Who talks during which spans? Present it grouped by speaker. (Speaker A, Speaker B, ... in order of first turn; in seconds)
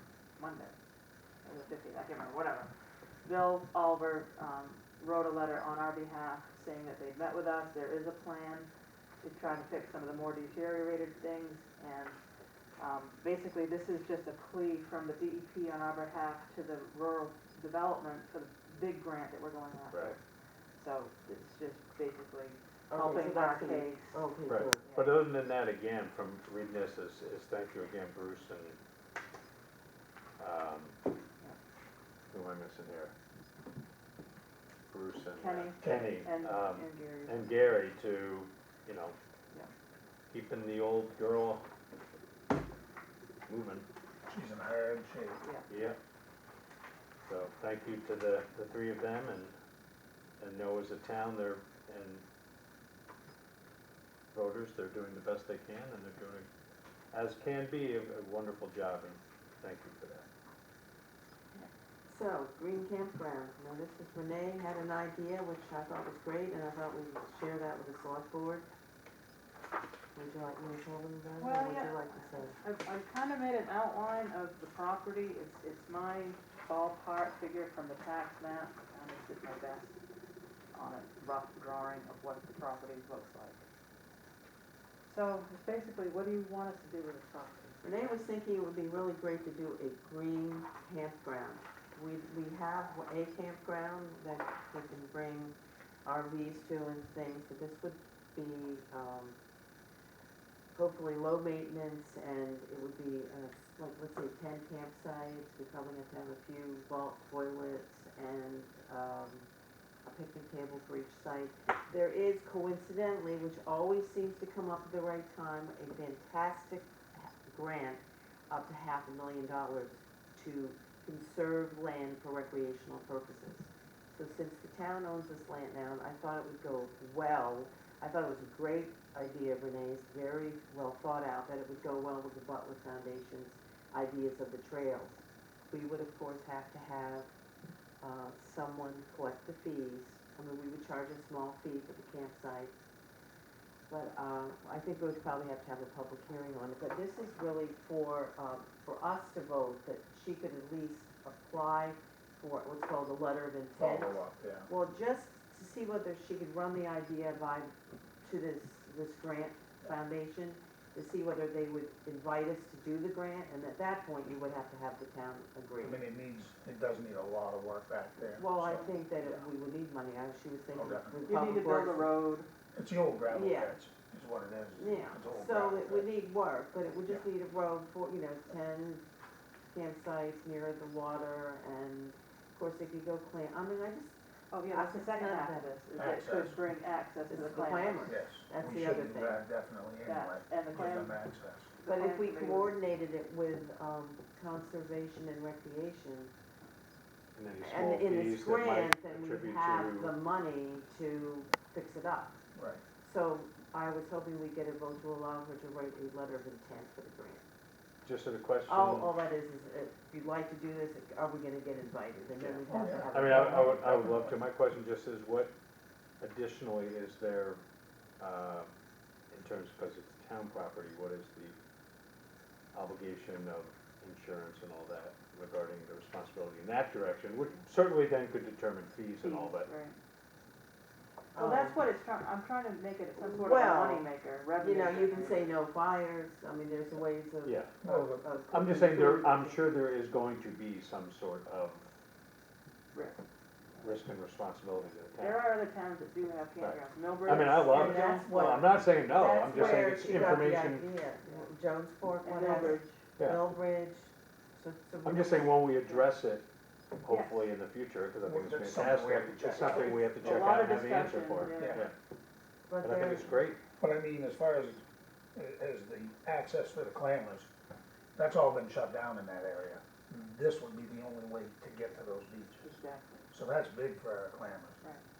Speaker A: 0.4-0.8, 1.4-2.7, 3.2-8.7, 9.2-12.2, 12.8-20.2, 20.8-24.3, 35.4-37.5, 45.4-45.7, 71.4-80.0, 80.7-83.7, 85.1-88.2, 171.3-172.5, 184.5-188.2, 190.0-191.2, 191.8-192.8, 229.2-230.0, 231.3-235.5, 242.9-243.2, 245.2-248.5, 252.2-253.0, 257.1-257.4, 260.0-261.9, 272.6-273.3
Speaker B: 22.9-24.9, 62.1-68.7, 70.2-72.6, 87.8-99.4, 100.7-109.5, 110.0-137.3, 138.0-142.7, 143.9-166.0, 168.4-172.1, 173.3-173.8, 174.7-179.1, 179.7-184.2, 184.7-185.7, 187.3-189.4, 191.9-196.3, 197.6-202.4, 203.0-207.4, 208.7-213.8, 231.3-231.8, 233.3-239.6, 247.3-255.5, 262.7-263.4
Speaker C: 24.5-28.8, 30.4-31.0, 32.3-33.1, 34.9-39.2, 40.3-41.6, 43.5-43.9, 45.7-46.0, 47.3-49.5, 50.4-52.2, 54.3-56.5, 57.1-60.3, 197.3-200.1, 208.1-209.1, 212.4-215.5, 216.2-217.6, 218.2-218.7, 219.3-221.6, 222.7-229.7, 237.4-237.8, 238.5-241.9, 243.8-245.5, 246.6-250.9, 253.2-253.5, 255.0-256.5, 257.0-261.9, 262.8-263.6
Speaker D: 35.8-36.1, 44.3-45.4, 153.7-154.7, 165.8-169.5, 170.7-171.2, 172.7-176.1, 185.9-186.6, 188.1-191.7, 202.5-202.8, 212.7-214.4, 237.8-238.3, 249.6-250.0, 258.2-260.5, 261.6-261.9, 263.8-264.8, 265.4-267.5, 268.1-272.6, 273.3-274.8